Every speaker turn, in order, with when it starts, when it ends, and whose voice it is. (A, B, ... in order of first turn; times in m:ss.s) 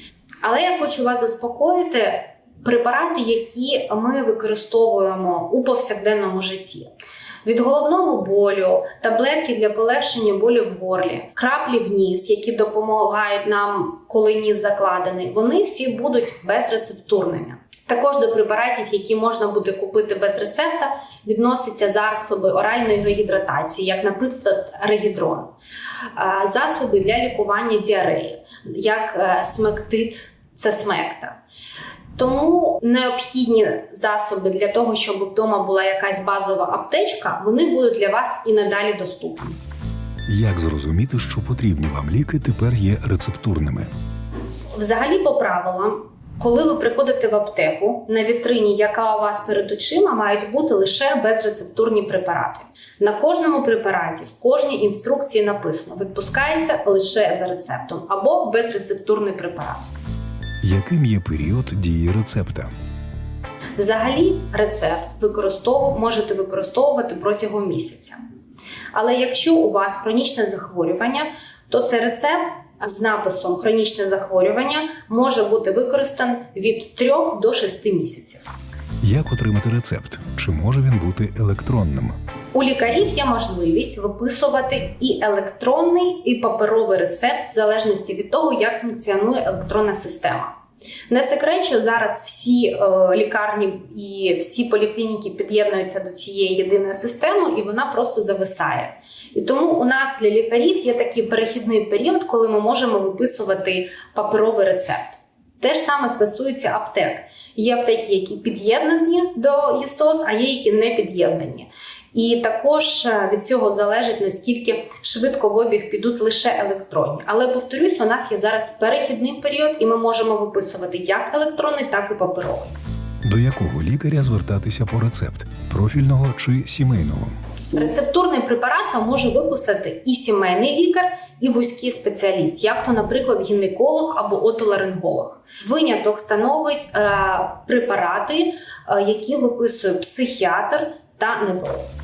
0:00.4-0:06.9 A
0:07.4-0:25.5 A
0:26.2-0:31.4 A
0:32.2-0:39.6 A
0:40.3-0:43.9 B
0:44.7-0:59.9 A
1:00.6-1:02.7 B
1:03.8-1:08.2 A
1:08.9-1:18.5 A
1:19.0-1:22.2 B
1:22.5-1:30.5 A
1:31.1-2:02.8 A
2:03.2-2:07.4 B
2:07.7-2:21.9 A